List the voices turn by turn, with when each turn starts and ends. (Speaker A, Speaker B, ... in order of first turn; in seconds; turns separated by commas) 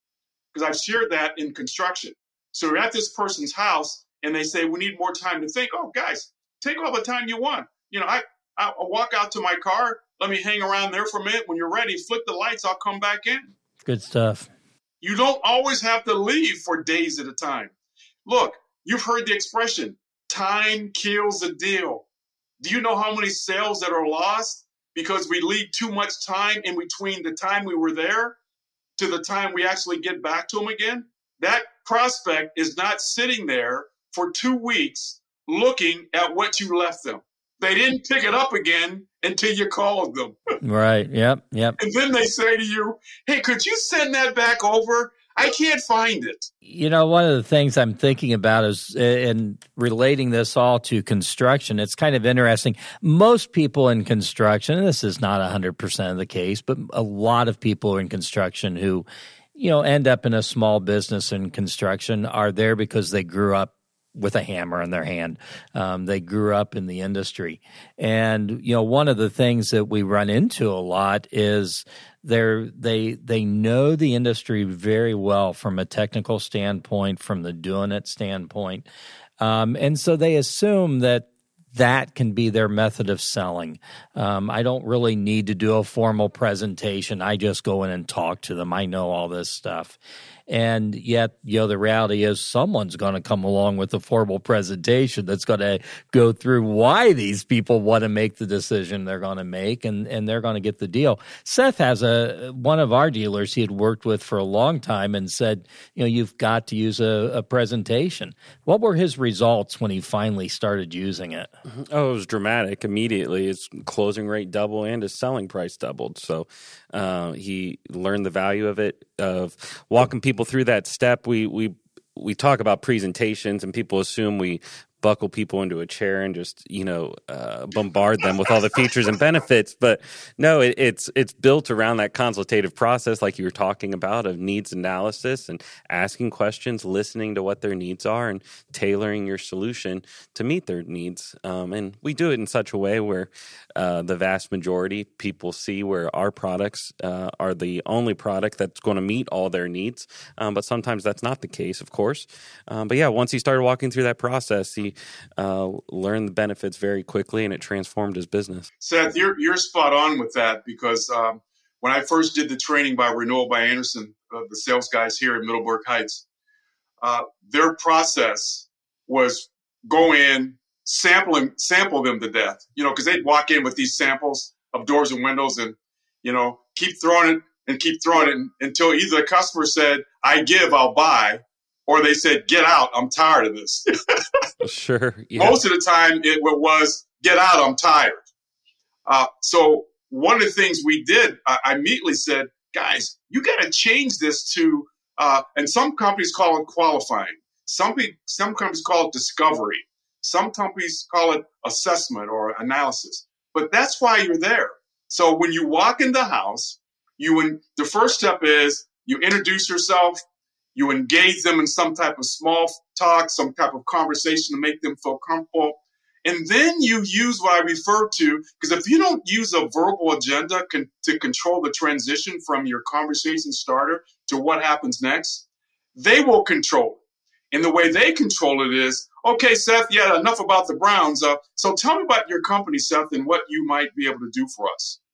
Speaker A: 0.5-13.5, Speaker B: 13.8-14.5, Speaker A: 15.0-17.7, Speaker A: 18.2-22.1, Speaker A: 22.6-28.4, Speaker A: 29.0-40.4, Speaker B: 40.6-41.8, Speaker A: 41.8-46.5, Speaker B: 46.6-78.9, Speaker B: 79.4-111.5, Speaker C: 111.7-158.7, Speaker A: 158.8-166.2, Speaker A: 167.0-183.8, Speaker C: 184.6-185.6, Speaker A: 185.4-188.2, Speaker A: 189.1-210.2, Speaker A: 210.7-227.0, Speaker A: 227.5-235.0